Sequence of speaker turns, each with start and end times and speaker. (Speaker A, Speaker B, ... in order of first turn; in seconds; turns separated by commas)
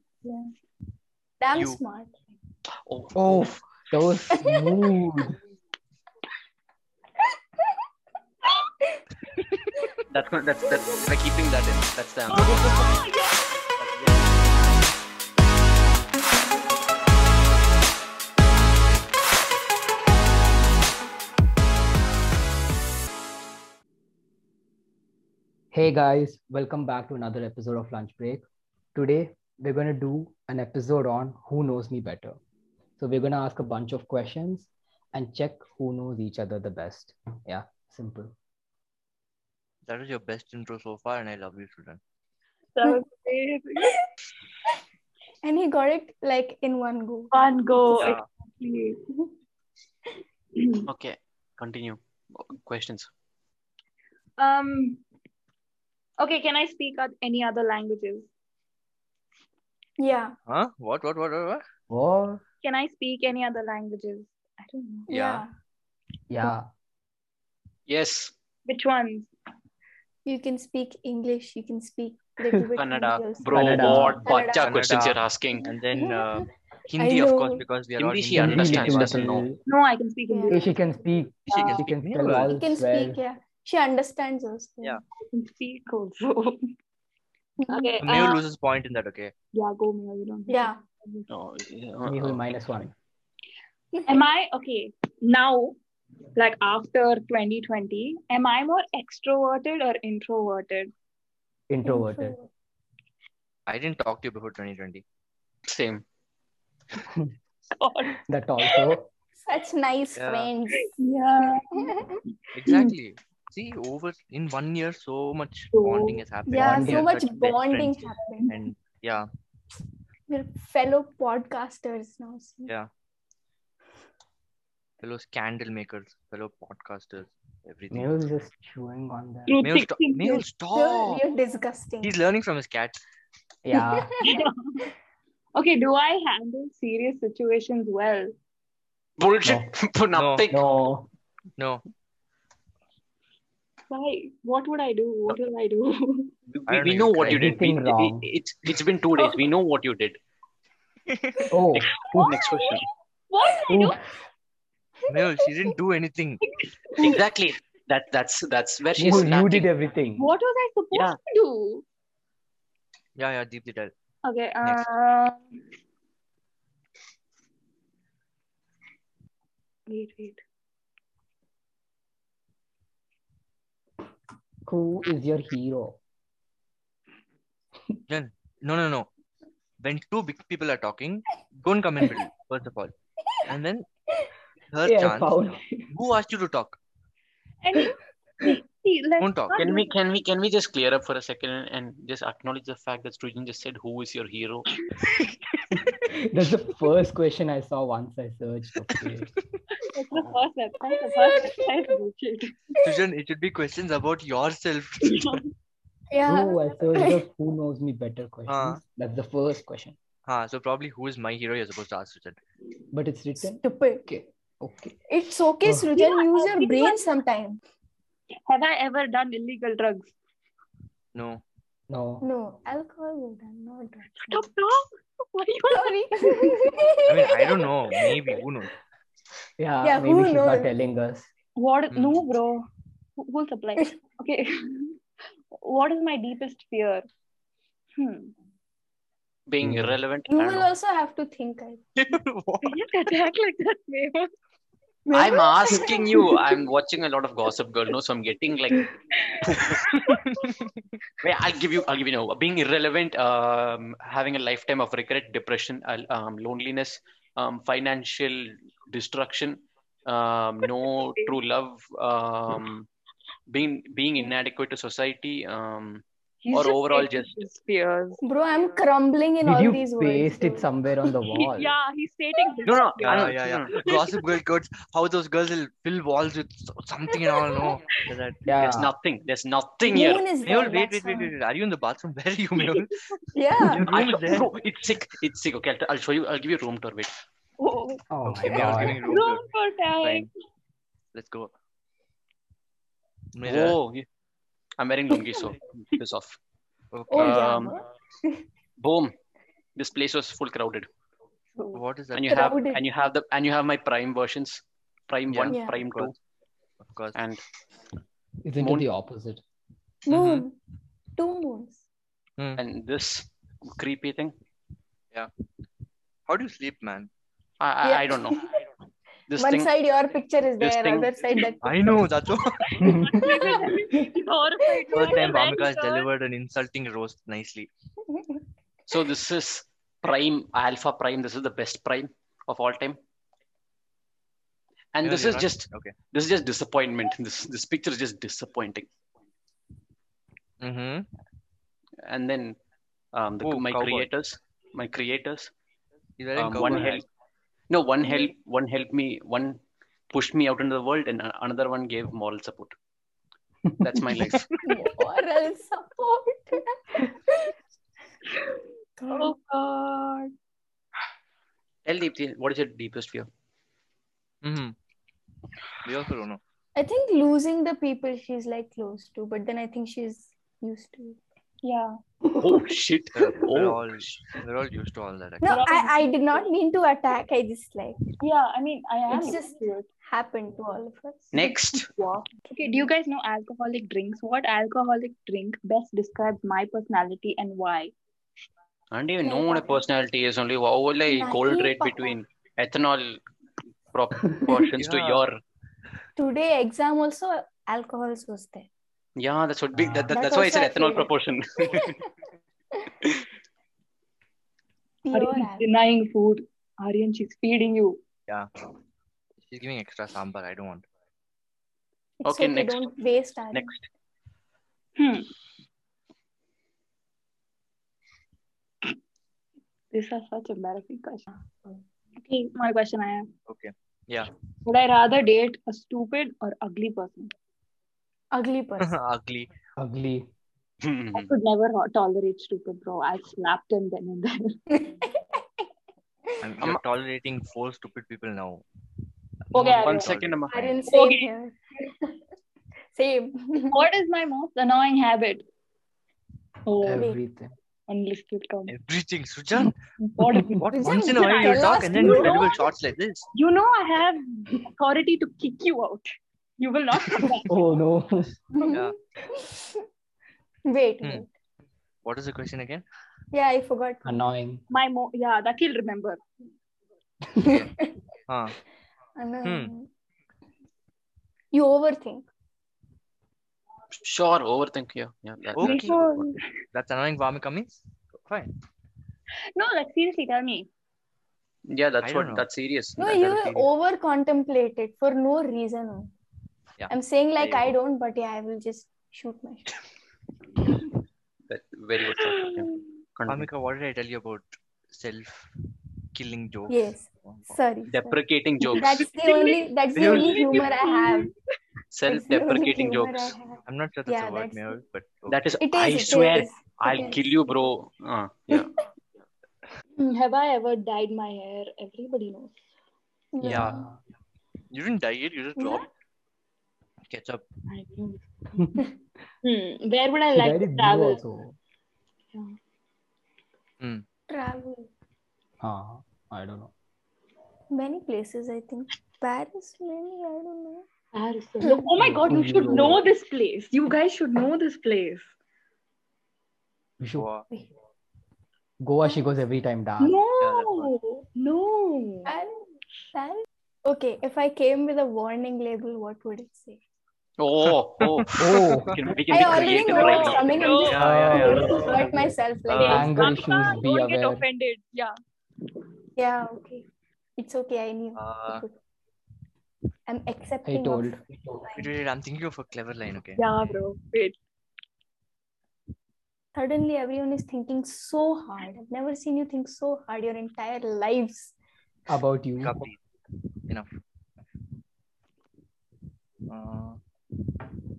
Speaker A: 1.4-2.2, Speaker B: 1.5-1.8, Speaker C: 2.9-3.1, Speaker D: 3.1-5.4, Speaker A: 4.3-4.9, Speaker C: 10.1-12.6, Speaker E: 12.3-13.5, Speaker D: 25.7-28.4, Speaker D: 28.9-32.4, Speaker D: 33.0-38.3, Speaker B: 39.9-42.0, Speaker E: 42.7-43.9, Speaker A: 45.4-47.3, Speaker E: 47.3-49.0, Speaker C: 47.9-48.2, Speaker E: 50.5-50.9, Speaker C: 50.9-53.1, Speaker E: 54.4-55.0, Speaker E: 56.2-58.3, Speaker A: 60.0-60.3, Speaker B: 60.5-61.6, Speaker D: 61.9-62.4, Speaker E: 62.6-65.1, Speaker A: 65.1-65.5, Speaker B: 65.1-65.5, Speaker D: 66.3-66.7, Speaker C: 67.9-68.3, Speaker E: 68.6-69.3, Speaker A: 70.2-74.7, Speaker C: 72.7-75.7, Speaker D: 73.5-74.2, Speaker B: 74.5-79.3, Speaker A: 75.9-77.6, Speaker C: 78.0-79.5, Speaker D: 78.3-79.6, Speaker E: 79.6-80.7, Speaker A: 80.3-80.6, Speaker D: 80.5-83.2, Speaker B: 81.5-82.5, Speaker A: 81.5-81.8, Speaker A: 82.4-85.0, Speaker E: 85.2-86.6, Speaker A: 87.6-88.4, Speaker E: 87.7-88.4, Speaker B: 88.0-89.3, Speaker E: 89.5-91.3, Speaker A: 90.5-90.8, Speaker C: 91.3-92.5, Speaker D: 92.0-92.9, Speaker A: 93.9-94.2, Speaker E: 94.1-95.8, Speaker E: 96.3-100.9, Speaker D: 101.7-102.4, Speaker A: 101.8-102.5, Speaker B: 103.7-105.0, Speaker C: 105.7-106.0, Speaker E: 107.8-108.8, Speaker D: 108.3-109.0, Speaker A: 109.4-110.9, Speaker B: 110.2-110.5, Speaker E: 110.7-111.9, Speaker A: 111.7-112.2, Speaker B: 112.5-119.3, Speaker E: 112.6-112.9, Speaker E: 115.7-116.2, Speaker A: 116.5-118.5, Speaker D: 116.6-117.0, Speaker A: 120.3-122.7, Speaker B: 125.0-128.2, Speaker D: 127.9-129.6, Speaker E: 129.5-130.5, Speaker B: 129.6-131.2, Speaker A: 130.6-132.1, Speaker B: 132.0-133.0, Speaker D: 133.6-134.2, Speaker A: 133.7-134.4, Speaker E: 134.2-134.9, Speaker E: 135.5-138.3, Speaker C: 139.2-140.6, Speaker B: 140.1-140.5, Speaker D: 140.5-141.1, Speaker B: 141.6-141.8, Speaker E: 143.9-146.3, Speaker C: 146.5-150.2, Speaker B: 146.7-147.6, Speaker D: 147.2-148.3, Speaker B: 151.2-151.5, Speaker D: 151.5-152.3, Speaker C: 151.7-152.8, Speaker E: 152.2-154.0, Speaker D: 153.7-154.0, Speaker B: 155.1-156.4, Speaker E: 156.4-157.2, Speaker C: 157.0-159.7, Speaker D: 158.9-160.3, Speaker E: 160.2-161.8, Speaker C: 160.9-161.2, Speaker B: 163.2-163.9, Speaker E: 164.2-165.6, Speaker E: 169.9-170.4, Speaker D: 174.7-176.0, Speaker B: 178.1-179.1, Speaker B: 179.8-182.9, Speaker B: 183.4-183.8, Speaker B: 184.7-186.8, Speaker D: 184.8-185.8, Speaker E: 187.6-189.9, Speaker B: 189.2-189.6, Speaker C: 189.6-194.7, Speaker D: 195.7-199.3, Speaker E: 199.9-202.5, Speaker C: 200.1-200.4, Speaker A: 200.9-201.8, Speaker B: 202.8-205.4, Speaker E: 205.0-205.4, Speaker A: 206.1-207.2, Speaker D: 206.2-209.9, Speaker B: 208.5-208.8, Speaker B: 210.2-212.4, Speaker D: 212.9-214.9, Speaker A: 213.4-214.1, Speaker A: 215.1-217.6, Speaker E: 215.9-217.1, Speaker E: 218.5-220.1, Speaker B: 221.1-221.4, Speaker D: 221.9-222.3, Speaker A: 222.2-224.5, Speaker E: 224.2-226.0, Speaker A: 225.7-227.2, Speaker B: 227.0-228.7, Speaker D: 229.6-231.3, Speaker A: 229.8-230.7, Speaker E: 231.6-232.6, Speaker B: 231.9-232.2, Speaker E: 233.2-235.0, Speaker E: 235.5-237.1, Speaker E: 238.0-238.3, Speaker C: 239.5-240.7, Speaker D: 239.6-239.9, Speaker A: 240.3-241.8, Speaker B: 241.9-242.8, Speaker E: 242.6-244.3, Speaker A: 245.1-246.3, Speaker C: 245.1-249.9, Speaker E: 246.2-246.5, Speaker E: 249.2-250.2, Speaker B: 250.1-250.7, Speaker C: 251.2-262.9, Speaker E: 260.6-261.4, Speaker C: 263.5-267.4, Speaker E: 266.4-268.2, Speaker A: 268.2-270.7, Speaker D: 269.4-271.7, Speaker E: 271.3-274.2, Speaker C: 272.6-273.7, Speaker B: 273.0-278.8, Speaker E: 277.4-277.8, Speaker D: 278.5-278.9, Speaker C: 278.6-280.2, Speaker A: 279.9-281.3, Speaker B: 280.4-284.5, Speaker A: 283.3-283.9, Speaker C: 283.9-287.1, Speaker E: 287.6-288.0, Speaker D: 288.1-289.1, Speaker B: 288.2-289.4, Speaker E: 289.0-290.3, Speaker B: 290.0-290.3, Speaker B: 291.1-291.5, Speaker B: 293.3-293.8, Speaker C: 293.4-294.1, Speaker C: 294.8-296.4, Speaker B: 296.9-297.5, Speaker A: 297.1-298.4, Speaker C: 297.1-297.8, Speaker C: 298.8-299.1, Speaker C: 299.8-300.9, Speaker B: 301.7-302.6, Speaker C: 302.1-306.2, Speaker A: 302.3-302.8, Speaker B: 305.3-306.2, Speaker A: 305.5-305.8, Speaker B: 306.8-307.2, Speaker C: 307.1-307.4, Speaker D: 308.4-309.4, Speaker C: 308.6-308.9, Speaker A: 310.1-310.6, Speaker B: 310.1-310.5, Speaker A: 311.1-311.8, Speaker C: 312.6-314.3, Speaker B: 316.3-317.1, Speaker C: 317.6-318.4, Speaker A: 317.8-318.4, Speaker C: 319.3-319.7, Speaker A: 319.3-322.1, Speaker C: 320.6-321.2, Speaker B: 321.6-322.7, Speaker E: 322.6-326.1, Speaker D: 322.8-323.3, Speaker A: 323.0-323.9, Speaker A: 324.6-325.2, Speaker B: 324.9-327.7, Speaker C: 328.9-333.0, Speaker C: 334.9-338.9, Speaker B: 335.0-335.9, Speaker B: 340.6-341.1, Speaker C: 342.1-342.6, Speaker C: 343.1-345.5, Speaker B: 343.4-344.1, Speaker B: 346.2-347.0, Speaker C: 346.3-347.0, Speaker C: 347.7-349.6, Speaker A: 348.0-348.3, Speaker C: 350.1-352.7, Speaker D: 353.7-354.2, Speaker C: 353.8-354.5, Speaker A: 354.6-357.5, Speaker E: 358.3-360.3, Speaker A: 359.0-359.3, Speaker C: 361.9-363.3, Speaker B: 364.4-364.7, Speaker B: 365.8-366.4, Speaker A: 366.7-371.2, Speaker E: 371.6-371.9, Speaker C: 372.4-374.2, Speaker B: 373.1-375.6, Speaker A: 375.4-378.1, Speaker E: 375.4-376.5, Speaker E: 378.2-379.9, Speaker A: 379.1-381.3, Speaker C: 381.3-381.9, Speaker E: 381.3-387.9, Speaker C: 388.9-393.2, Speaker A: 389.2-389.8, Speaker A: 391.1-392.2, Speaker C: 393.9-395.4, Speaker D: 394.3-394.6, Speaker B: 394.8-395.2, Speaker A: 396.2-398.7, Speaker C: 399.2-402.0, Speaker D: 399.8-400.1, Speaker A: 400.1-401.1, Speaker A: 405.0-405.7, Speaker E: 405.1-408.0, Speaker B: 409.4-410.9, Speaker A: 412.2-413.7, Speaker C: 412.2-412.9, Speaker C: 413.5-413.9, Speaker E: 415.0-415.3, Speaker E: 419.9-421.3, Speaker E: 422.2-423.3, Speaker B: 423.5-424.3, Speaker E: 424.6-427.3, Speaker A: 428.3-428.9, Speaker B: 428.8-429.5, Speaker D: 429.8-430.2, Speaker C: 430.8-431.3, Speaker E: 431.1-434.6, Speaker A: 434.7-435.4, Speaker B: 436.4-438.6, Speaker E: 439.5-440.1, Speaker B: 439.5-440.4, Speaker C: 439.6-440.7, Speaker A: 440.5-442.2, Speaker E: 440.9-441.3, Speaker A: 442.9-443.8, Speaker E: 443.6-445.4, Speaker E: 446.6-447.0, Speaker D: 446.8-447.5, Speaker E: 447.9-448.7, Speaker B: 448.7-449.8, Speaker E: 450.1-452.6, Speaker D: 450.3-450.6, Speaker B: 450.6-453.3, Speaker A: 450.8-452.5, Speaker E: 453.3-457.5, Speaker D: 457.5-458.4, Speaker A: 458.5-459.8, Speaker B: 458.6-458.9, Speaker A: 460.7-461.3, Speaker B: 462.0-462.8, Speaker A: 463.3-464.2, Speaker D: 464.0-464.6, Speaker E: 464.7-466.2, Speaker A: 467.4-467.9, Speaker B: 468.3-468.6, Speaker A: 469.1-469.9, Speaker B: 469.4-469.7, Speaker A: 471.5-472.3, Speaker C: 474.0-476.4, Speaker B: 475.6-475.9, Speaker E: 475.6-476.5, Speaker B: 476.7-478.5, Speaker E: 479.6-480.7, Speaker C: 481.7-483.6, Speaker B: 482.0-482.5, Speaker A: 483.0-486.1, Speaker B: 486.8-487.7, Speaker A: 486.9-489.8, Speaker C: 491.5-493.5, Speaker E: 492.1-492.8, Speaker B: 493.3-495.5, Speaker B: 496.1-497.6, Speaker A: 496.7-498.2, Speaker C: 497.9-499.1, Speaker E: 498.6-501.3, Speaker A: 498.7-501.3, Speaker B: 499.9-500.8, Speaker C: 501.9-503.3, Speaker A: 502.1-504.8, Speaker B: 503.6-505.4, Speaker C: 505.3-508.7, Speaker A: 505.6-507.5, Speaker E: 510.0-512.6, Speaker A: 513.3-513.9, Speaker D: 513.4-514.0, Speaker B: 513.4-513.8, Speaker B: 514.7-515.9, Speaker A: 515.6-515.8, Speaker B: 517.1-517.4, Speaker E: 517.7-518.2, Speaker D: 518.5-518.8, Speaker E: 519.4-521.2, Speaker D: 520.3-521.5, Speaker A: 524.3-524.9, Speaker D: 525.6-526.7, Speaker A: 527.7-530.9, Speaker E: 531.1-535.3, Speaker A: 531.6-532.4, Speaker D: 532.0-533.0, Speaker D: 537.0-537.3, Speaker B: 537.1-537.4, Speaker D: 538.8-540.2, Speaker A: 539.0-539.4, Speaker E: 540.0-542.3, Speaker B: 540.4-540.9, Speaker A: 542.3-542.6, Speaker A: 543.1-546.8, Speaker C: 547.4-550.8, Speaker B: 547.7-549.8, Speaker D: 548.4-549.0, Speaker A: 549.3-553.6, Speaker E: 549.9-551.8, Speaker B: 550.6-551.9, Speaker D: 550.9-554.4, Speaker B: 552.7-553.2, Speaker E: 552.8-555.1, Speaker A: 556.2-556.8, Speaker A: 557.4-558.7, Speaker B: 558.1-558.6, Speaker A: 560.1-561.2, Speaker D: 560.6-561.8, Speaker B: 561.7-563.8, Speaker E: 563.4-564.4, Speaker A: 566.5-571.5, Speaker D: 572.1-572.7, Speaker B: 572.6-573.0, Speaker B: 576.5-577.0